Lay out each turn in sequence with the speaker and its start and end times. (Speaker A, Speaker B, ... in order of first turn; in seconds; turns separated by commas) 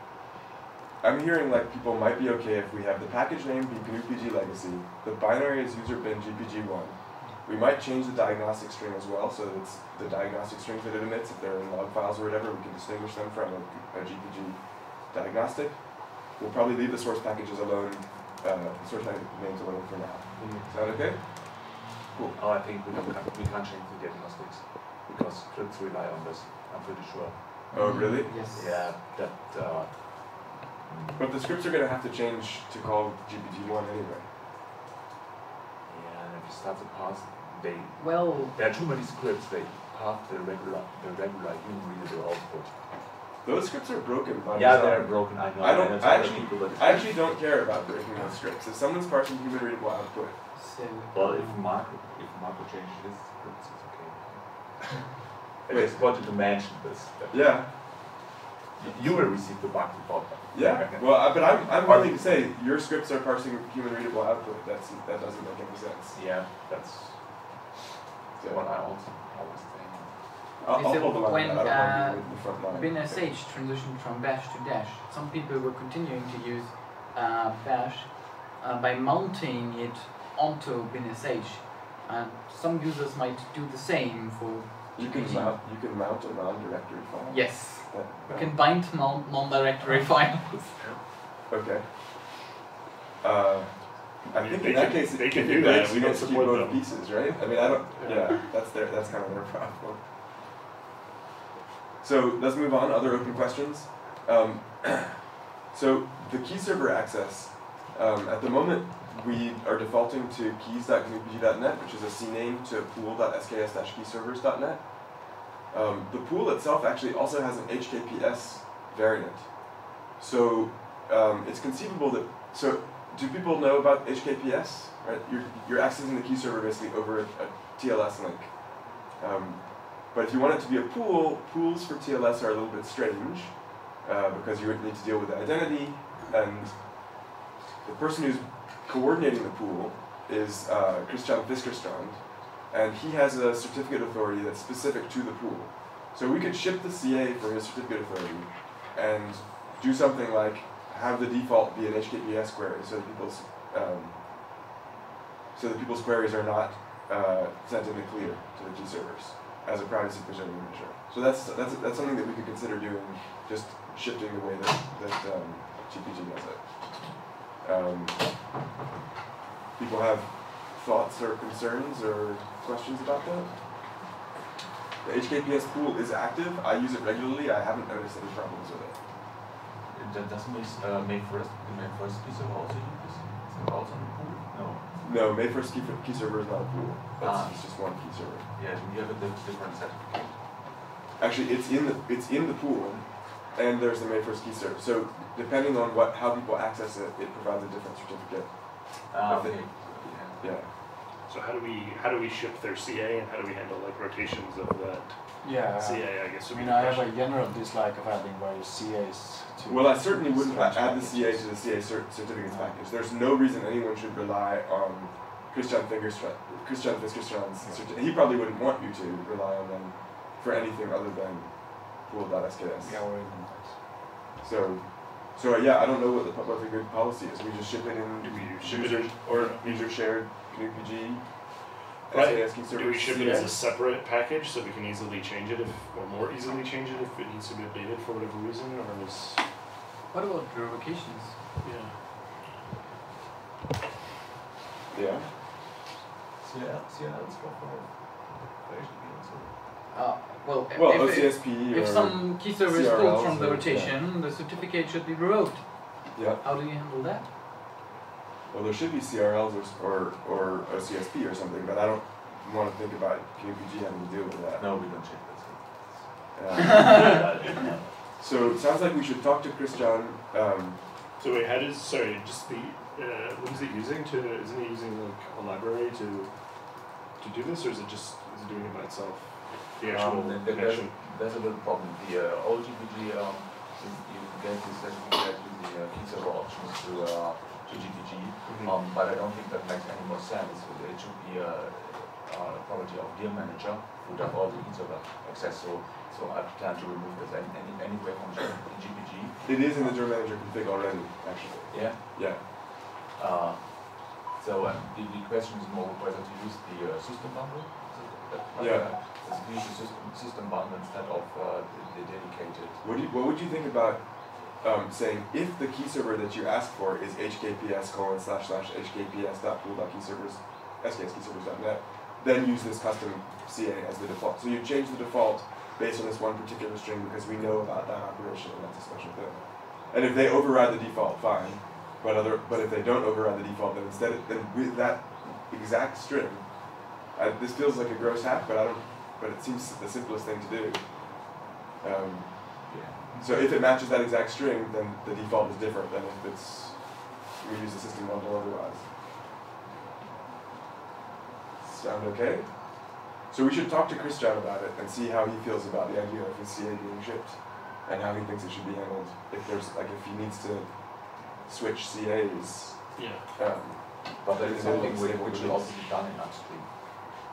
Speaker A: 1.0-22.4, Speaker B: 22.3-31.2, Speaker A: 27.7-28.4, Speaker C: 27.7-29.0, Speaker A: 31.2-34.3, Speaker B: 35.8-43.0, Speaker C: 38.0-38.6, Speaker A: 43.4-50.4, Speaker B: 44.5-47.6, Speaker C: 50.5-51.7, Speaker B: 51.1-58.1, Speaker A: 55.7-56.6, Speaker A: 57.3-58.0, Speaker B: 58.8-62.5, Speaker A: 60.5-66.2, Speaker B: 66.1-67.6, Speaker A: 68.4-68.7, Speaker B: 68.4-70.3, Speaker A: 70.6-73.3, Speaker C: 70.6-85.6, Speaker A: 85.0-88.6, Speaker C: 87.3-90.7, Speaker B: 89.8-90.8, Speaker A: 91.5-91.9, Speaker A: 93.2-100.0, Speaker D: 94.3-98.3, Speaker B: 97.3-97.8, Speaker A: 102.0-137.3, Speaker A: 137.8-154.2, Speaker A: 155.5-168.3, Speaker A: 169.8-173.6, Speaker A: 175.0-179.0, Speaker B: 179.9-184.9, Speaker A: 185.0-188.5, Speaker B: 187.2-190.6, Speaker A: 191.2-200.7, Speaker B: 199.1-200.6, Speaker D: 201.3-207.2, Speaker E: 205.4-211.7, Speaker A: 209.7-223.1, Speaker E: 212.4-212.8, Speaker E: 217.6-217.9, Speaker E: 222.8-223.8, Speaker A: 224.4-231.3, Speaker D: 228.2-229.9, Speaker A: 232.1-233.6, Speaker D: 232.1-239.4, Speaker C: 240.1-241.4, Speaker D: 241.6-241.9, Speaker A: 244.9-245.3, Speaker B: 246.4-249.6, Speaker C: 249.9-257.3, Speaker A: 250.7-254.0, Speaker A: 256.1-256.4, Speaker A: 258.5-264.7, Speaker B: 264.6-268.2, Speaker A: 266.4-267.3, Speaker C: 266.6-267.3, Speaker A: 268.2-270.8, Speaker D: 271.2-276.3, Speaker D: 277.1-280.9, Speaker B: 279.8-299.9, Speaker D: 288.4-288.8, Speaker A: 299.4-302.4, Speaker B: 301.7-312.8, Speaker A: 308.6-308.9, Speaker A: 312.8-348.9, Speaker B: 342.7-343.0, Speaker A: 351.6-365.8, Speaker D: 363.0-363.2, Speaker B: 364.2-366.8, Speaker E: 364.6-365.0